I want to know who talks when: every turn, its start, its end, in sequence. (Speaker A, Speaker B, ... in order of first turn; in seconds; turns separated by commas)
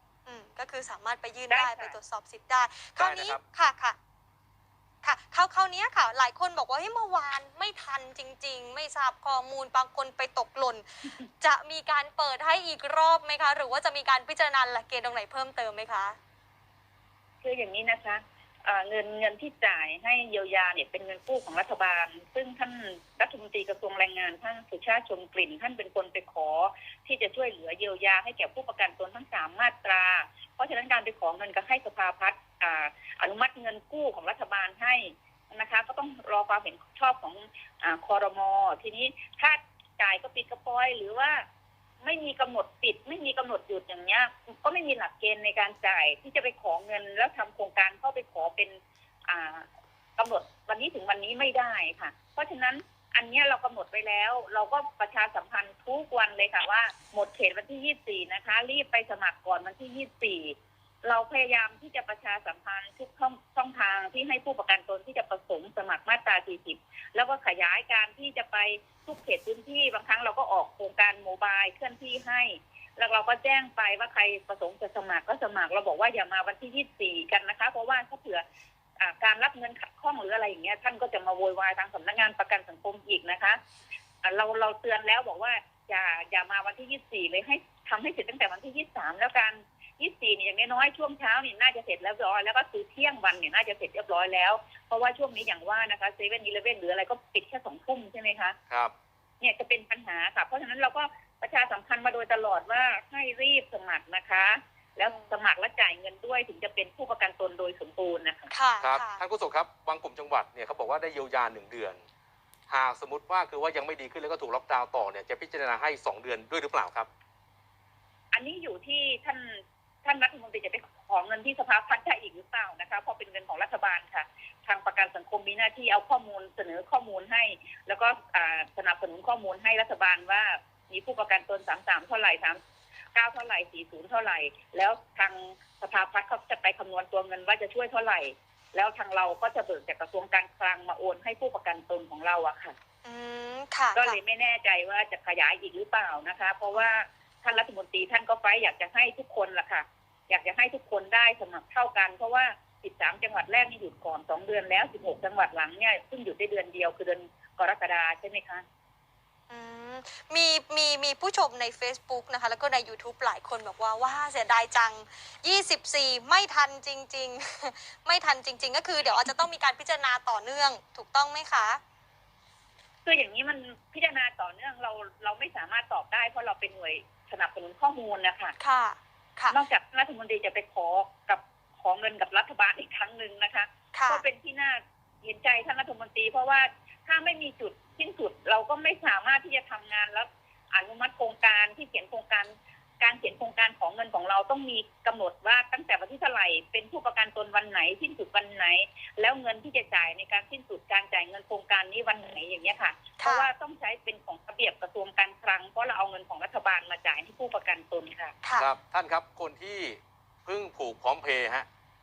Speaker A: 0.3-4.0, Speaker B: 1.5-2.0, Speaker C: 3.0-3.4, Speaker A: 5.0-16.2, Speaker B: 17.4-41.4, Speaker B: 42.0-78.4, Speaker B: 79.0-83.6, Speaker B: 84.2-98.6, Speaker B: 99.4-108.5, Speaker A: 105.0-105.3, Speaker A: 108.5-109.2, Speaker C: 108.8-112.0, Speaker C: 112.7-117.1, Speaker B: 118.3-132.6, Speaker B: 133.2-142.8, Speaker A: 143.0-144.2, Speaker B: 143.9-158.7, Speaker A: 159.5-171.8, Speaker B: 173.0-178.6, Speaker A: 178.6-179.6, Speaker B: 179.5-208.3, Speaker A: 183.9-184.2, Speaker A: 203.2-203.5, Speaker C: 208.6-211.7